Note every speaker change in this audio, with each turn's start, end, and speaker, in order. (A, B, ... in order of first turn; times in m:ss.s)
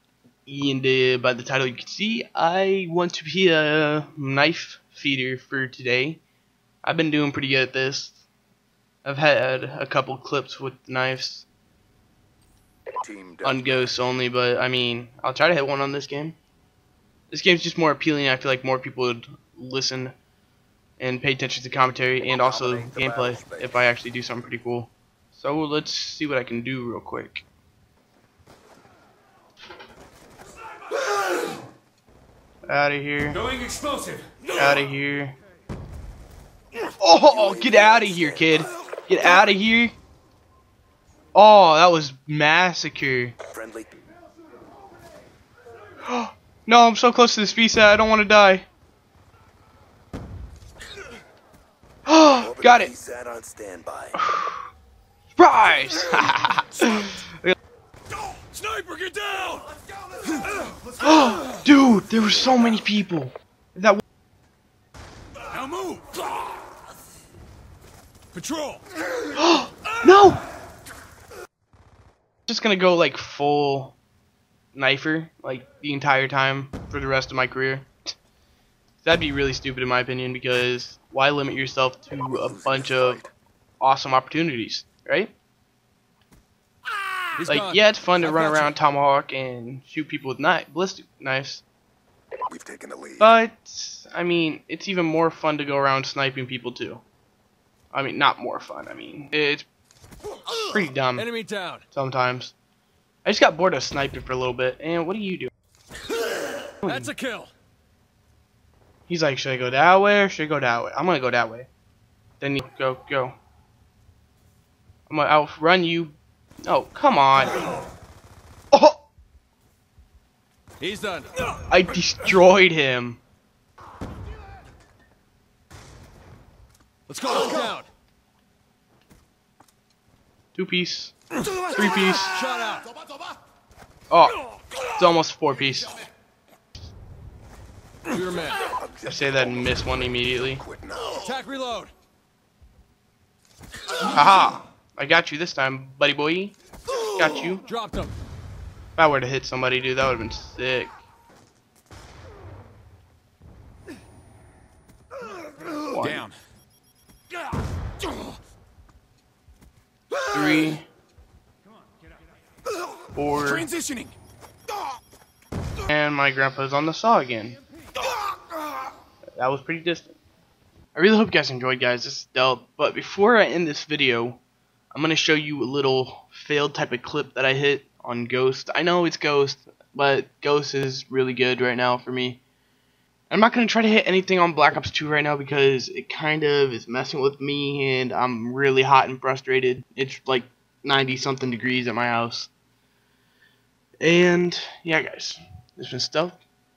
0:00.5-0:06.2 A
0:06.8-0:08.2 A
0:09.0-0:11.5 A
0:13.0-0:13.6 B
0:13.4-0:16.4 A
0:17.3-0:20.1 A
0:21.0-0:27.4 A
0:22.9-0:23.6 B
0:32.7-0:33.4 A
0:33.6-0:34.4 C
0:34.5-0:35.4 A
0:37.0-0:40.0 A
0:37.6-0:38.2 B
0:41.3-0:43.4 A
0:43.5-0:43.9 B
0:46.0-0:48.7 A
0:52.0-0:52.9 A
0:52.4-0:54.2 B
0:54.2-0:54.7 A
0:55.4-0:57.6 A
0:58.3-0:59.7 C
1:00.3-1:00.7 C
1:01.0-1:04.0 A
1:05.5-1:06.2 C
1:08.3-1:08.8 C
1:09.3-1:10.4 A
1:12.5-1:14.0 A
1:14.7-1:17.9 A
1:19.0-1:23.2 A
1:22.6-1:23.2 B
1:23.8-1:25.3 A
1:27.3-1:28.7 C
1:27.5-1:31.6 A
1:32.5-1:33.2 B
1:33.2-1:37.0 A
1:37.9-1:39.7 A
1:40.5-1:41.3 A
1:41.1-1:41.8 C
1:41.9-1:42.6 A
1:43.2-1:45.5 A
1:46.7-1:47.5 C
1:46.8-1:47.1 A
1:49.1-1:51.7 A
1:52.4-1:53.4 A
1:55.1-1:57.6 A
1:58.7-1:59.0 A
2:00.8-2:01.4 C
2:01.5-2:03.2 A
2:07.1-2:07.9 C
2:10.5-2:11.2 A
2:11.7-2:12.4 A
2:12.2-2:12.9 C
2:14.1-2:16.0 A
2:18.1-2:18.7 C
2:18.8-2:19.3 B
2:19.0-2:20.6 A
2:20.6-2:21.2 B
2:21.1-2:21.9 C
2:24.0-2:27.6 A
2:27.7-2:28.1 C
2:29.0-2:30.9 A
2:35.6-2:36.3 A
2:36.0-2:36.3 C
2:40.3-2:40.9 A
2:43.2-2:43.7 A
2:43.4-2:44.1 C
2:45.9-2:47.6 A
2:49.4-2:50.2 A
2:51.0-2:54.4 A
2:54.9-3:02.4 A
3:03.3-3:12.5 A
3:14.0-3:16.4 A